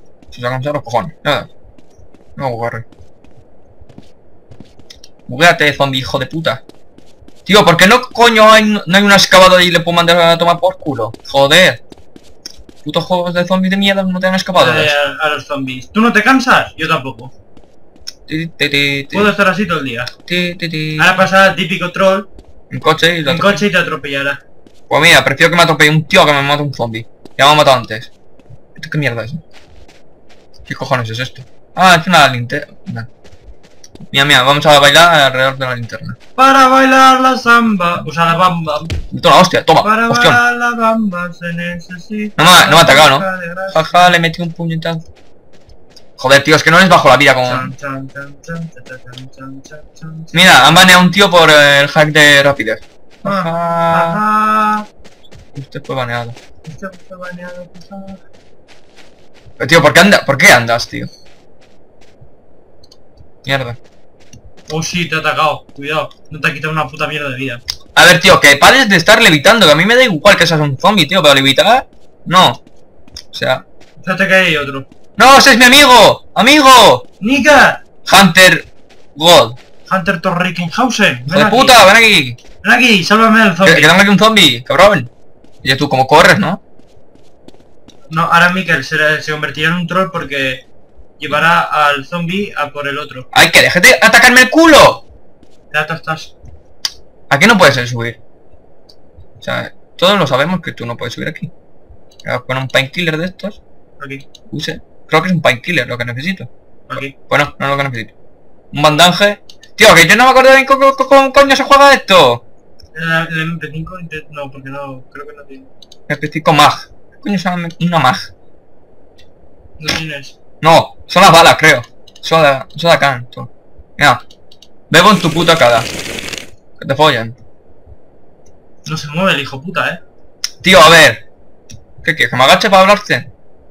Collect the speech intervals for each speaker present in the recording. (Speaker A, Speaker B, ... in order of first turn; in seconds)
Speaker A: 0.3-1.5, 2.4-2.9, 5.3-6.6, 7.5-11.8, 12.8-14.9, 18.3-19.3, 20.3-21.1, 22.7-23.6, 24.9-28.1, 28.8-29.4, 30.7-33.1, 34.1-36.2, 39.1-40.4, 42.4-45.0, 46.2-47.7, 50.3-54.2, 55.5-56.4, 59.6-61.1, 63.5-63.8, 68.0-72.6, 73.3-73.6, 75.2-77.0, 78.1-79.6, 81.3-82.4, 83.7-85.1, 85.6-86.6, 93.3-95.0, 97.3-98.2, 99.4-101.5, 102.2-103.6, 104.5-106.5, 107.1-108.1, 108.7-112.4, 116.1-118.3, 120.6-124.2, 124.9-125.9, 126.8-127.3, 130.6-131.2, 132.0-133.3
Speaker B: 14.5-17.3, 19.1-20.1, 21.0-22.3, 23.2-24.4, 36.4-39.0, 39.8-44.1, 47.5-50.9, 53.2-54.9, 56.7-58.2, 64.7-67.6, 74.0-74.9, 77.2-77.8, 79.9-81.8, 82.6-84.0, 88.1-90.6, 91.2-93.3, 95.7-96.3, 104.0-104.2, 106.9-107.1, 112.9-115.7, 119.8-120.3, 128.9-130.0